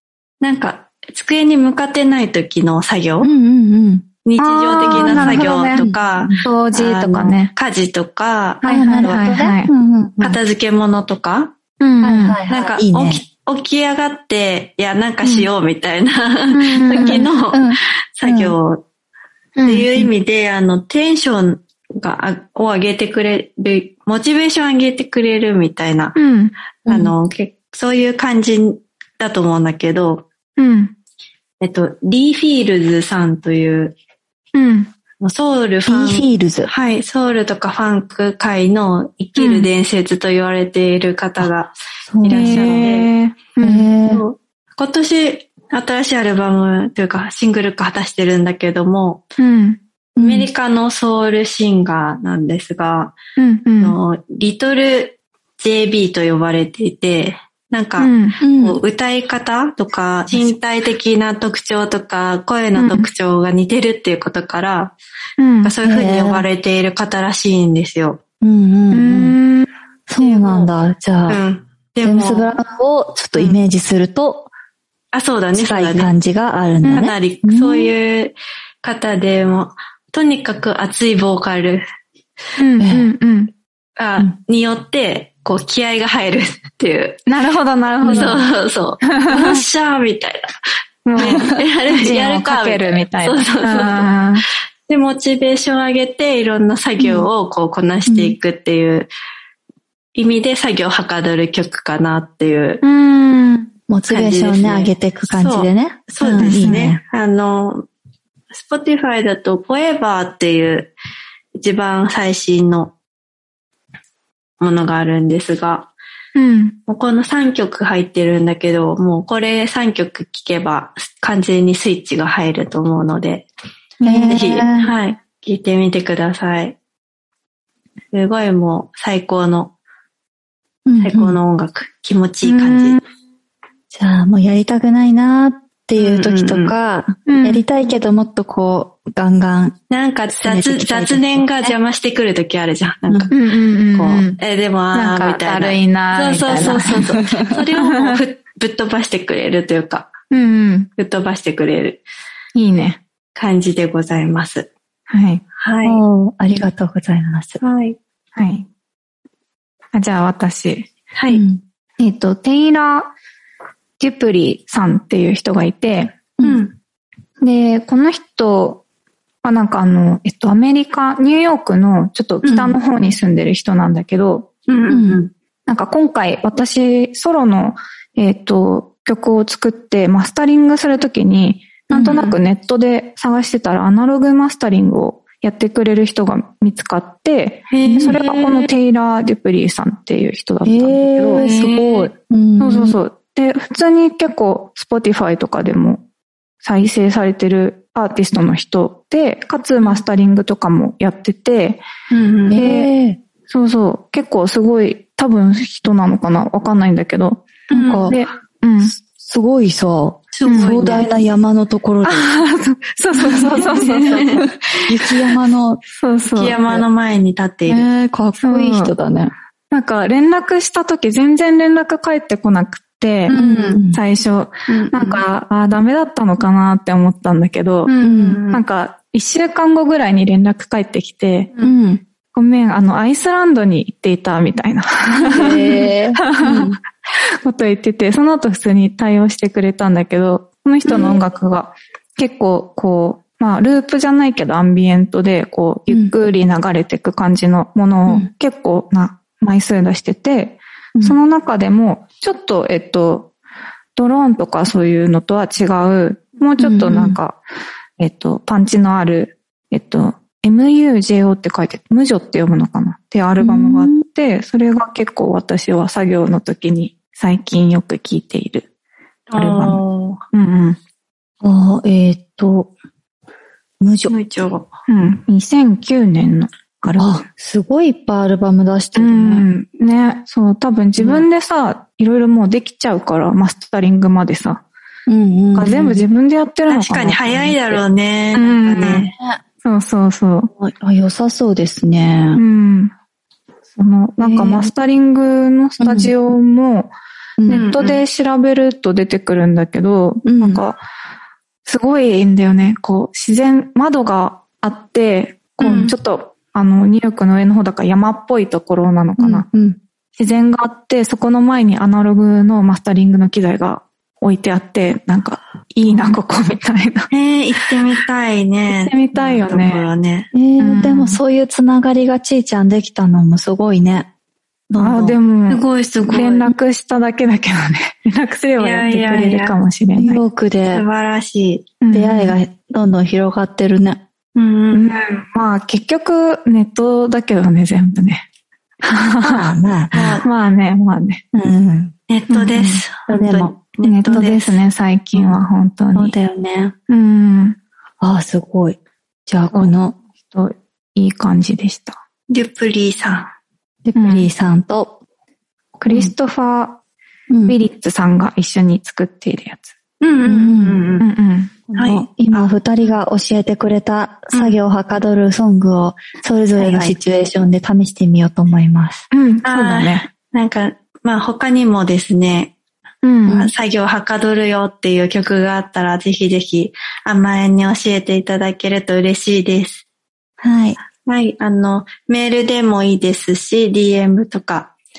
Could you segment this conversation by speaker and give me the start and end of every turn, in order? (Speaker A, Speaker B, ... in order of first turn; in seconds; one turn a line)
Speaker A: 0.4-3.3
Speaker B: 3.2-4.0
Speaker A: 4.2-9.3
Speaker C: 4.4-5.8
Speaker B: 4.9-6.5
Speaker C: 6.4-7.5
Speaker C: 8.6-9.7
Speaker B: 8.6-10.4
Speaker A: 10.2-11.5
Speaker C: 11.8-12.4
Speaker B: 12.0-13.2
Speaker A: 12.5-18.8
Speaker C: 15.2-15.5
Speaker C: 16.5-17.3
Speaker B: 16.9-18.6
Speaker C: 19.6-19.9
Speaker A: 19.6-26.2
Speaker C: 26.1-26.5
Speaker B: 26.9-27.1
Speaker A: 26.9-30.2
Speaker C: 30.6-30.9
Speaker A: 31.6-34.0
Speaker C: 34.5-34.9
Speaker A: 35.2-43.1
Speaker B: 35.9-36.7
Speaker C: 39.4-39.7
Speaker B: 42.1-42.9
Speaker C: 42.3-43.9
Speaker B: 43.6-44.2
Speaker A: 44.1-49.2
Speaker C: 49.4-49.8
Speaker B: 50.2-50.5
Speaker A: 50.2-53.1
Speaker C: 53.4-54.0
Speaker A: 53.8-65.0
Speaker C: 58.0-58.4
Speaker B: 58.4-58.8
Speaker C: 62.7-63.1
Speaker C: 65.4-65.8
Speaker A: 65.6-68.2
Speaker B: 65.8-66.5
Speaker B: 68.4-69.4
Speaker C: 68.9-69.7
Speaker B: 70.1-71.4
Speaker A: 70.2-70.7
Speaker A: 71.2-72.6
Speaker B: 72.0-74.5
Speaker A: 73.3-73.6
Speaker A: 75.1-76.1
Speaker B: 75.5-77.9
Speaker A: 76.8-81.8
Speaker C: 82.6-83.5
Speaker B: 82.8-83.1
Speaker A: 84.0-87.2
Speaker C: 87.3-88.5
Speaker B: 88.0-88.4
Speaker A: 88.1-90.5
Speaker C: 89.0-89.6
Speaker C: 91.0-94.4
Speaker A: 91.1-94.1
Speaker B: 91.2-91.6
Speaker A: 94.9-99.1
Speaker B: 97.0-97.3
Speaker B: 98.0-98.4
Speaker A: 100.1-102.8
Speaker C: 102.8-103.7
Speaker B: 103.9-107.0
Speaker A: 104.1-107.8
Speaker A: 108.5-110.9
Speaker A: 111.6-112.9
Speaker A: 114.6-115.9
Speaker C: 116.3-116.7
Speaker A: 116.9-123.5
Speaker C: 124.0-124.3
Speaker B: 124.0-124.9
Speaker A: 124.1-126.8
Speaker A: 128.1-129.7
Speaker B: 130.8-131.4
Speaker A: 131.0-133.0
Speaker C: 132.4-133.0
Speaker B: 133.9-139.8
Speaker A: 135.9-136.7
Speaker C: 137.3-137.6
Speaker A: 139.9-143.4
Speaker B: 140.3-141.8
Speaker C: 143.3-144.4
Speaker A: 143.9-150.1
Speaker C: 144.9-147.1
Speaker B: 146.6-147.5
Speaker C: 147.7-148.2
Speaker C: 150.3-150.9
Speaker A: 151.0-152.0
Speaker C: 152.5-153.0
Speaker A: 153.3-154.7
Speaker C: 155.1-155.4
Speaker A: 155.6-156.0
Speaker B: 155.8-157.6
Speaker A: 157.6-158.0
Speaker C: 158.3-158.7
Speaker C: 159.9-160.9
Speaker A: 161.1-161.4
Speaker B: 161.3-161.6
Speaker C: 162.0-163.1
Speaker C: 164.0-166.2
Speaker A: 166.4-166.8
Speaker C: 167.4-168.8
Speaker C: 169.4-174.5
Speaker A: 172.4-172.8
Speaker A: 174.7-175.3
Speaker B: 174.9-175.2
Speaker C: 175.7-191.5
Speaker A: 181.9-182.4
Speaker A: 187.7-188.7
Speaker B: 187.8-188.2
Speaker B: 190.6-193.0
Speaker A: 191.3-192.1
Speaker C: 192.6-196.0
Speaker C: 196.6-201.8
Speaker A: 202.1-202.6
Speaker B: 202.5-203.2
Speaker C: 202.6-202.9
Speaker C: 203.5-208.9
Speaker A: 207.7-208.1
Speaker B: 207.7-208.2
Speaker B: 208.8-212.4
Speaker A: 210.3-211.1
Speaker C: 210.4-210.7
Speaker C: 212.0-214.4
Speaker A: 213.2-214.4
Speaker B: 213.2-215.8
Speaker C: 216.0-216.6
Speaker A: 216.3-217.8
Speaker B: 217.7-219.3
Speaker C: 218.4-218.9
Speaker C: 219.7-223.3
Speaker A: 223.3-223.8
Speaker B: 223.3-224.0
Speaker C: 223.9-227.9
Speaker A: 224.7-225.2
Speaker A: 227.9-228.6
Speaker B: 228.0-228.4
Speaker C: 228.5-231.5
Speaker B: 231.6-232.0
Speaker C: 232.3-253.3
Speaker B: 235.3-236.8
Speaker B: 240.8-241.2
Speaker B: 245.9-246.2
Speaker C: 253.9-257.4
Speaker B: 256.6-257.2
Speaker C: 258.0-268.7
Speaker B: 263.4-264.0
Speaker A: 269.3-270.2
Speaker C: 269.3-269.8
Speaker C: 270.3-270.8
Speaker B: 271.4-272.7
Speaker B: 273.8-274.1
Speaker A: 274.1-274.7
Speaker C: 274.9-277.2
Speaker B: 277.0-279.5
Speaker C: 278.9-284.6
Speaker B: 285.1-286.0
Speaker C: 285.5-289.1
Speaker A: 286.7-289.1
Speaker B: 288.8-289.4
Speaker C: 289.6-290.5
Speaker B: 290.5-292.4
Speaker C: 292.4-292.9
Speaker C: 293.8-296.9
Speaker B: 294.2-294.7
Speaker B: 295.8-296.1
Speaker B: 297.4-297.7
Speaker C: 297.4-300.8
Speaker A: 297.5-298.0
Speaker B: 300.2-300.6
Speaker C: 301.6-309.5
Speaker A: 305.6-305.9
Speaker B: 309.2-309.8
Speaker C: 310.2-317.1
Speaker A: 317.1-320.3
Speaker C: 318.7-319.9
Speaker B: 320.3-324.1
Speaker C: 320.6-321.2
Speaker B: 324.7-325.2
Speaker C: 324.8-330.2
Speaker A: 325.5-326.5
Speaker A: 328.6-329.6
Speaker B: 330.0-330.8
Speaker A: 330.7-331.7
Speaker C: 331.8-332.4
Speaker B: 331.9-334.0
Speaker A: 334.4-334.9
Speaker C: 334.7-338.2
Speaker C: 338.8-339.5
Speaker B: 339.2-340.2
Speaker A: 339.9-340.3
Speaker C: 340.2-341.2
Speaker B: 341.3-341.9
Speaker A: 342.1-344.6
Speaker C: 342.3-342.8
Speaker B: 343.0-343.5
Speaker C: 343.8-346.1
Speaker B: 345.9-346.7
Speaker C: 346.9-347.6
Speaker B: 348.0-350.0
Speaker C: 349.5-352.0
Speaker A: 352.3-353.3
Speaker B: 353.8-355.0
Speaker C: 353.9-354.3
Speaker C: 355.8-356.8
Speaker B: 355.9-356.1
Speaker B: 357.3-357.6
Speaker C: 357.4-359.7
Speaker A: 360.0-361.1
Speaker B: 360.2-360.9
Speaker C: 361.0-361.6
Speaker B: 361.7-369.1
Speaker A: 361.7-362.5
Speaker A: 364.3-364.6
Speaker A: 366.6-366.9
Speaker C: 369.1-370.1
Speaker A: 369.4-372.5
Speaker C: 373.0-373.4
Speaker B: 373.2-373.5
Speaker A: 373.3-379.9
Speaker B: 380.4-380.8
Speaker A: 381.0-384.7